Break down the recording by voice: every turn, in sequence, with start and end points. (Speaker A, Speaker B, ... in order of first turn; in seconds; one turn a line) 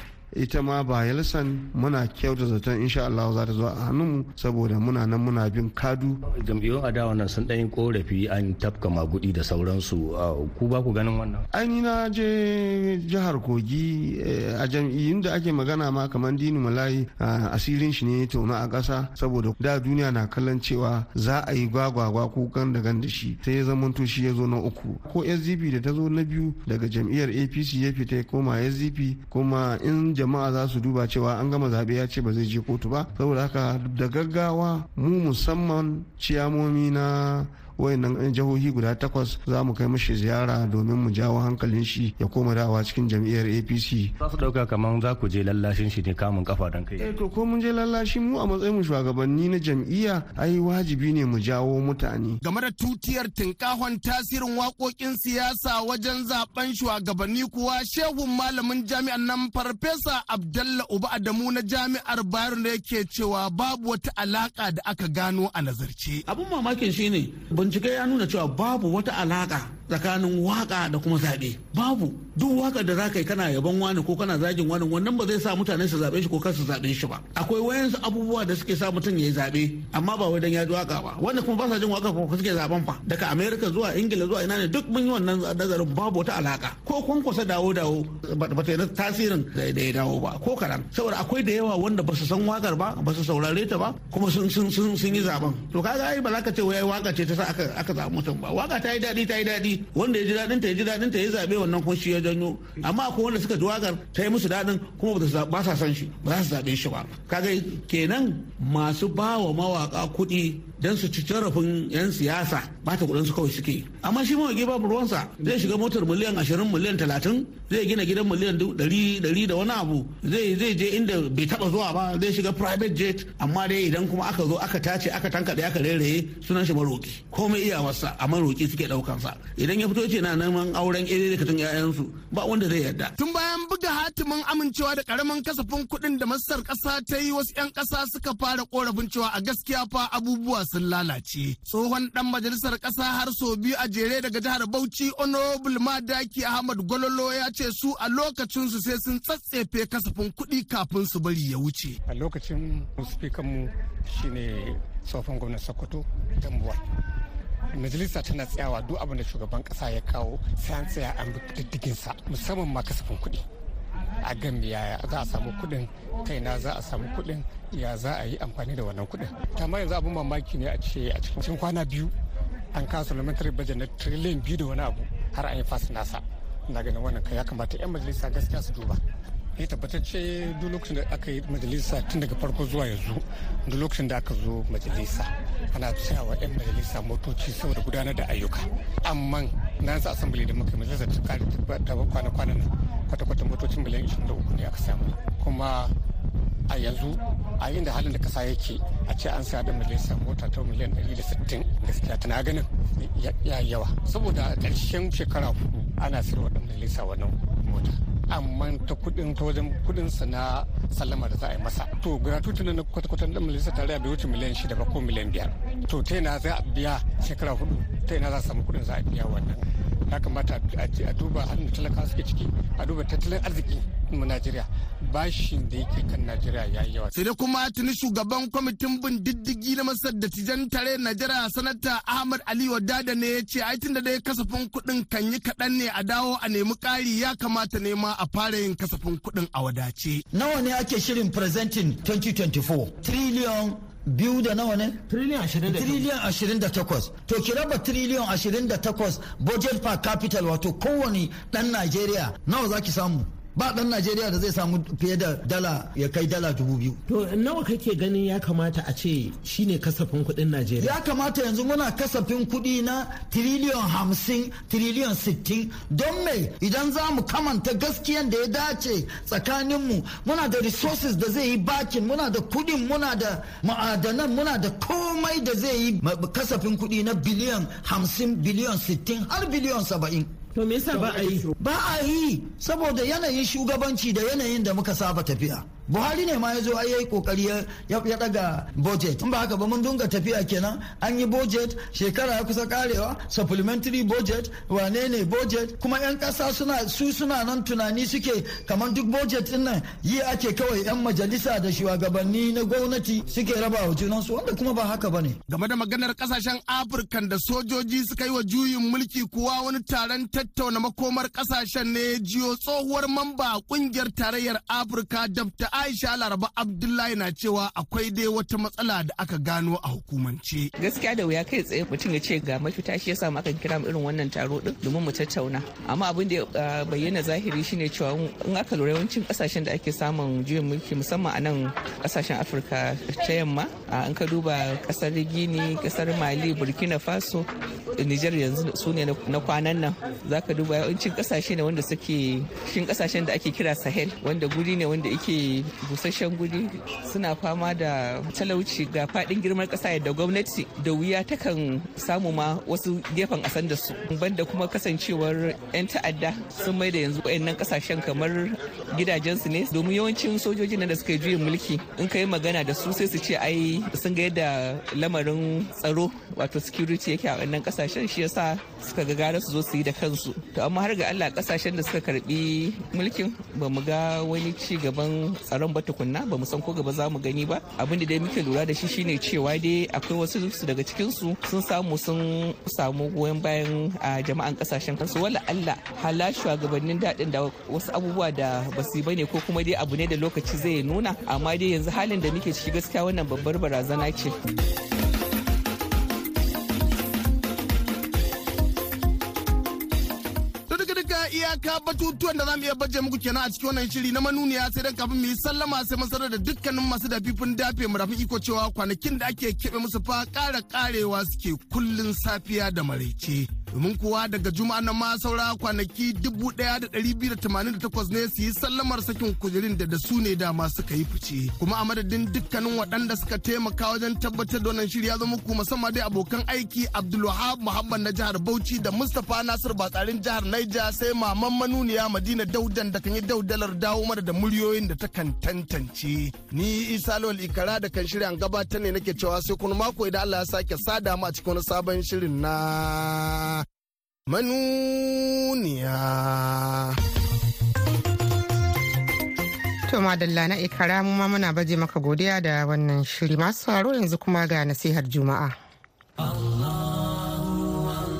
Speaker A: 0.3-6.2
Speaker B: 6.3-11.4
Speaker A: 11.5-44.1
Speaker B: 44.2-47.1
Speaker A: 47.0-52.4
Speaker C: 52.4-66.2
Speaker D: 66.3-133.1
Speaker C: 133.2-152.0
Speaker E: 152.1-156.8
Speaker E: 157.7-163.4
Speaker E: 164.2-172.1
Speaker E: 172.7-179.0
Speaker E: 179.6-195.9
Speaker E: 196.7-227.1
Speaker C: 227.1-240.2
Speaker F: 240.3-245.0
Speaker G: 245.1-246.1
Speaker F: 245.7-257.0
Speaker G: 257.1-261.0
Speaker F: 260.8-280.4
Speaker G: 280.5-281.5
Speaker F: 281.6-305.4
Speaker C: 305.5-320.7
Speaker H: 320.8-394.3
Speaker C: 400.7-443.6
Speaker C: 444.3-447.0
Speaker I: 449.9-455.6